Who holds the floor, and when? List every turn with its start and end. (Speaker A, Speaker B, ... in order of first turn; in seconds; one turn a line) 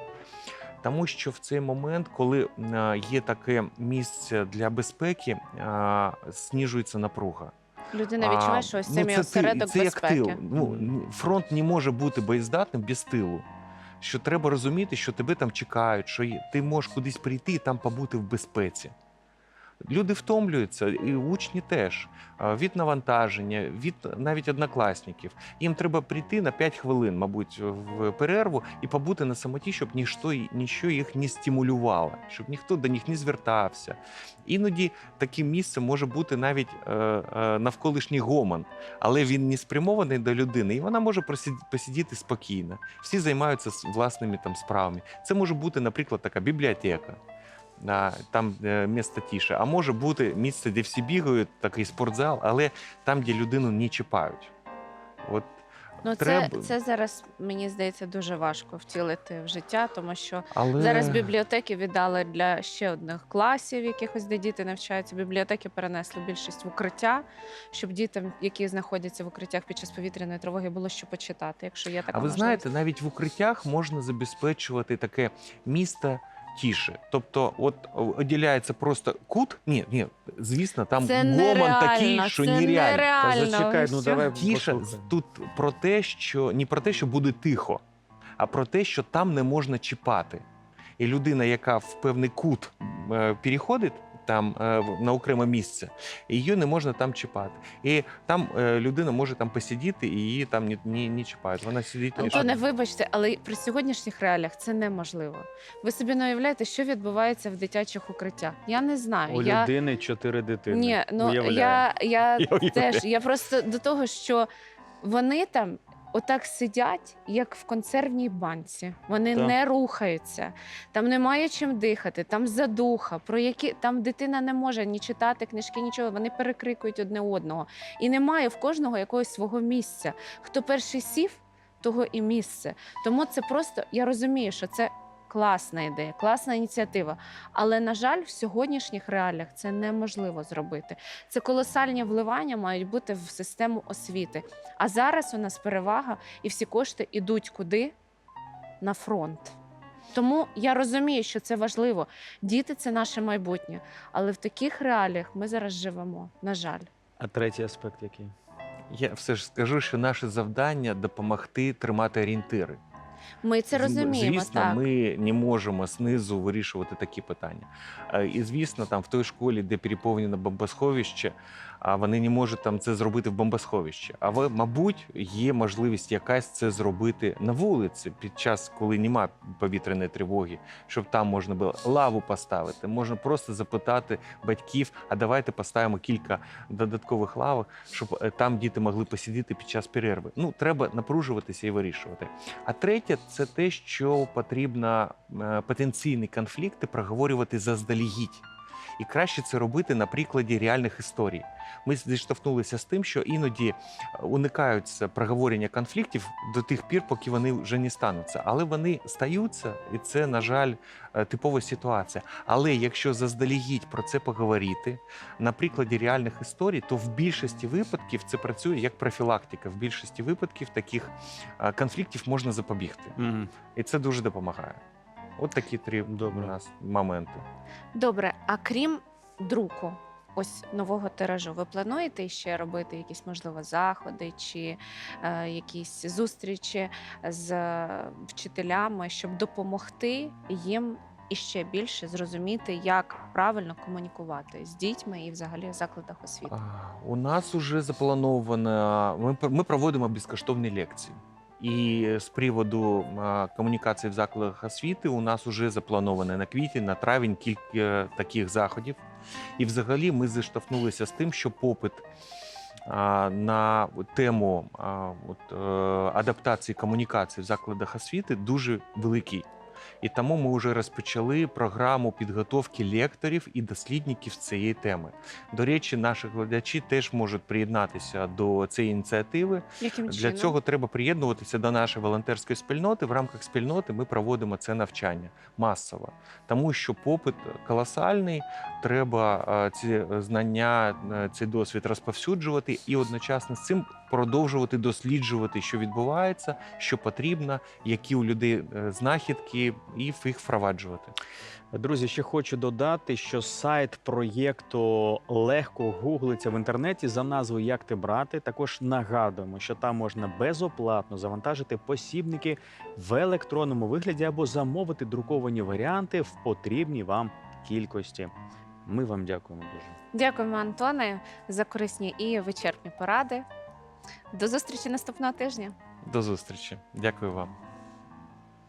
Speaker A: 0.8-7.5
Speaker B: 7.9-10.4
Speaker A: 8.2-13.4
Speaker C: 10.6-10.9
Speaker A: 14.0-18.9
Speaker A: 19.8-47.2
Speaker A: 47.8-54.5
Speaker A: 55.2-55.5
Speaker B: 56.0-72.6
Speaker A: 56.1-56.7
Speaker A: 60.5-61.3
Speaker A: 72.1-83.2
Speaker B: 81.0-84.2
Speaker C: 83.2-85.1
Speaker A: 84.2-87.8
Speaker A: 88.4-90.4
Speaker A: 91.0-102.6
Speaker B: 102.2-109.7
Speaker C: 109.3-111.9
Speaker B: 110.7-114.5
Speaker C: 112.5-113.0
Speaker B: 115.0-147.9
Speaker B: 148.8-149.6
Speaker B: 150.1-156.9
Speaker C: 157.2-158.3
Speaker A: 158.9-162.8
Speaker B: 163.4-164.8
Speaker A: 163.7-198.4
Speaker A: 199.0-223.2
Speaker C: 223.2-223.5
Speaker A: 223.7-224.8
Speaker A: 225.4-227.4
Speaker C: 226.1-226.6
Speaker B: 227.9-246.6
Speaker A: 246.5-259.0
Speaker A: 259.6-262.1
Speaker A: 262.9-269.4
Speaker A: 270.0-301.1
Speaker B: 279.8-280.6
Speaker C: 301.7-318.3
Speaker C: 318.9-320.0
Speaker B: 320.1-323.4
Speaker B: 324.3-325.7
Speaker A: 326.0-327.5